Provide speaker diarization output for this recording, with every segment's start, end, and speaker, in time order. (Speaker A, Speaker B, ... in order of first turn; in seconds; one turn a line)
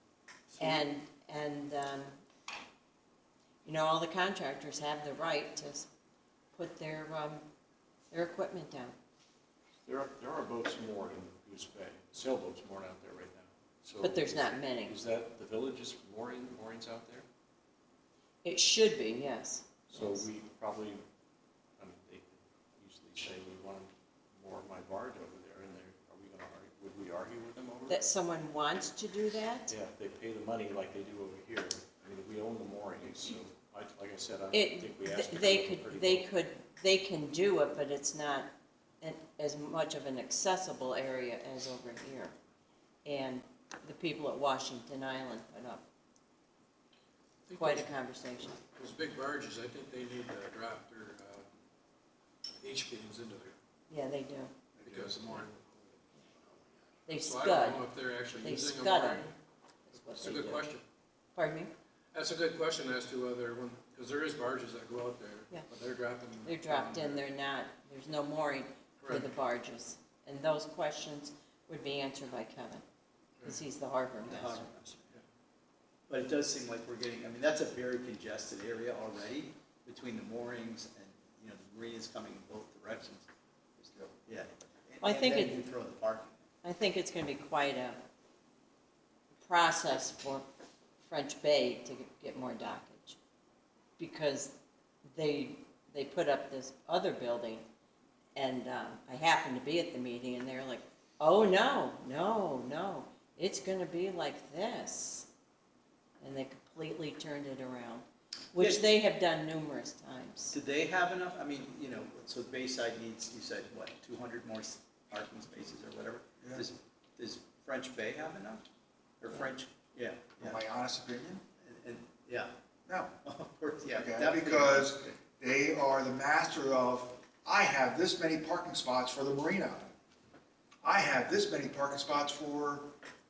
Speaker A: 0.6-2.1
Speaker A: 3.6-5.9
Speaker A: 6.5-7.4
Speaker A: 8.1-8.9
Speaker B: 9.8-17.3
Speaker A: 14.0-15.0
Speaker A: 18.4-20.3
Speaker B: 19.9-21.0
Speaker B: 21.8-28.0
Speaker A: 27.9-29.7
Speaker B: 29.7-36.3
Speaker A: 34.5-38.5
Speaker A: 39.0-42.3
Speaker A: 43.0-45.8
Speaker C: 47.5-47.9
Speaker A: 47.6-48.6
Speaker C: 48.8-51.5
Speaker C: 52.6-53.6
Speaker A: 53.9-54.5
Speaker C: 54.9-56.0
Speaker B: 54.9-55.4
Speaker A: 57.1-57.9
Speaker C: 57.2-59.4
Speaker A: 58.4-59.2
Speaker A: 59.9-60.7
Speaker C: 60.1-60.8
Speaker A: 61.4-61.7
Speaker C: 62.1-67.2
Speaker A: 66.5-72.8
Speaker C: 69.0-69.3
Speaker A: 73.4-74.7
Speaker D: 74.2-75.1
Speaker D: 76.1-83.3
Speaker D: 83.8-86.4
Speaker A: 85.0-85.6
Speaker A: 86.6-88.0
Speaker A: 89.4-90.5
Speaker A: 91.0-93.2
Speaker A: 94.0-94.6
Speaker A: 95.2-97.7
Speaker A: 98.3-105.3
Speaker A: 106.2-110.6
Speaker D: 108.6-108.8
Speaker D: 110.5-118.7
Speaker D: 119.2-120.6
Speaker E: 120.4-121.4
Speaker D: 121.6-122.5
Speaker E: 122.9-123.1
Speaker D: 123.2-125.1
Speaker E: 123.9-129.9
Speaker E: 130.8-132.9